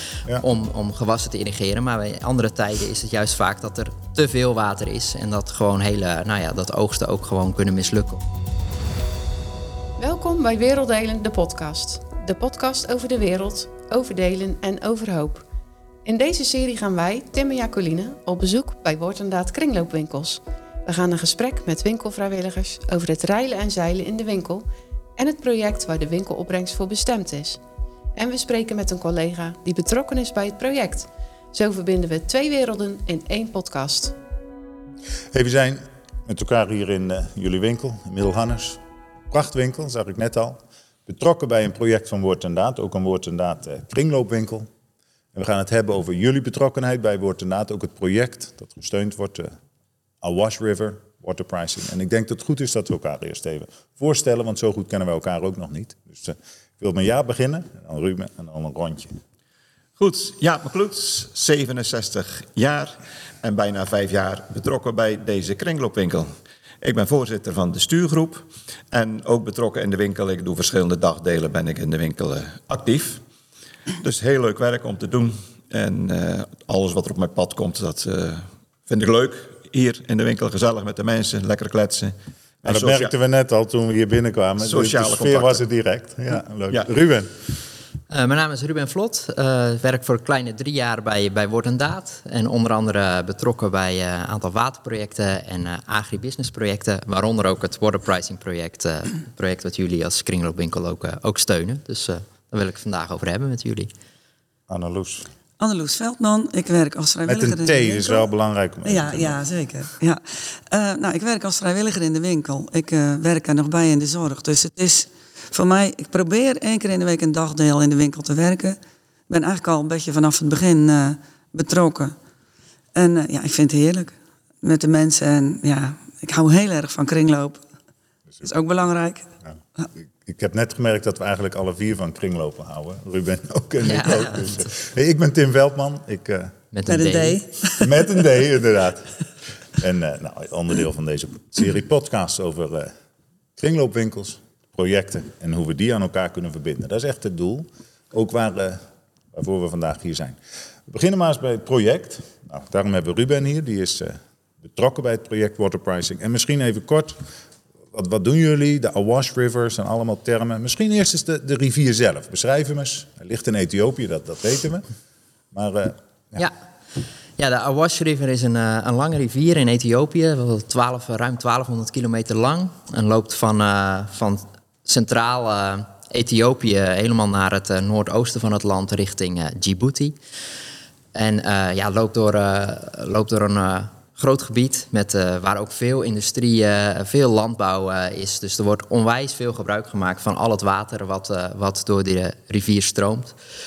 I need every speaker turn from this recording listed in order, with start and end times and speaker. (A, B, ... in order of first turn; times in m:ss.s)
0:00.4-0:08.2 A
0:10.0-0:15.4 B
0:16.0-0:24.7 B
0:25.2-0:27.6 B
0:28.2-0:34.1 B
0:35.3-0:38.8 C
0:39.3-0:44.7 C
0:45.3-0:49.6 C
0:50.2-0:59.2 C
1:00.0-1:13.2 D
1:14.0-1:23.1 D
1:22.6-1:27.3 C
1:24.6-1:25.6 D
1:28.1-1:43.9 A
1:44.7-1:45.3 C
1:45.6-1:48.2 E
1:47.3-1:49.4 C
1:48.8-1:58.8 E
1:59.3-2:02.2 E
2:03.0-2:07.6 E
2:08.4-2:09.3 E
2:10.2-2:16.6 C
2:13.8-2:14.7 A
2:16.7-2:17.4 A
2:16.9-2:18.1 E
2:17.8-2:19.2 C
2:19.8-2:22.9 C
2:23.6-2:28.8 C
2:29.3-2:37.2 C
2:37.9-2:44.8 C
2:45.5-2:46.4 C
2:47.4-3:00.2 A
3:01.1-3:13.4 A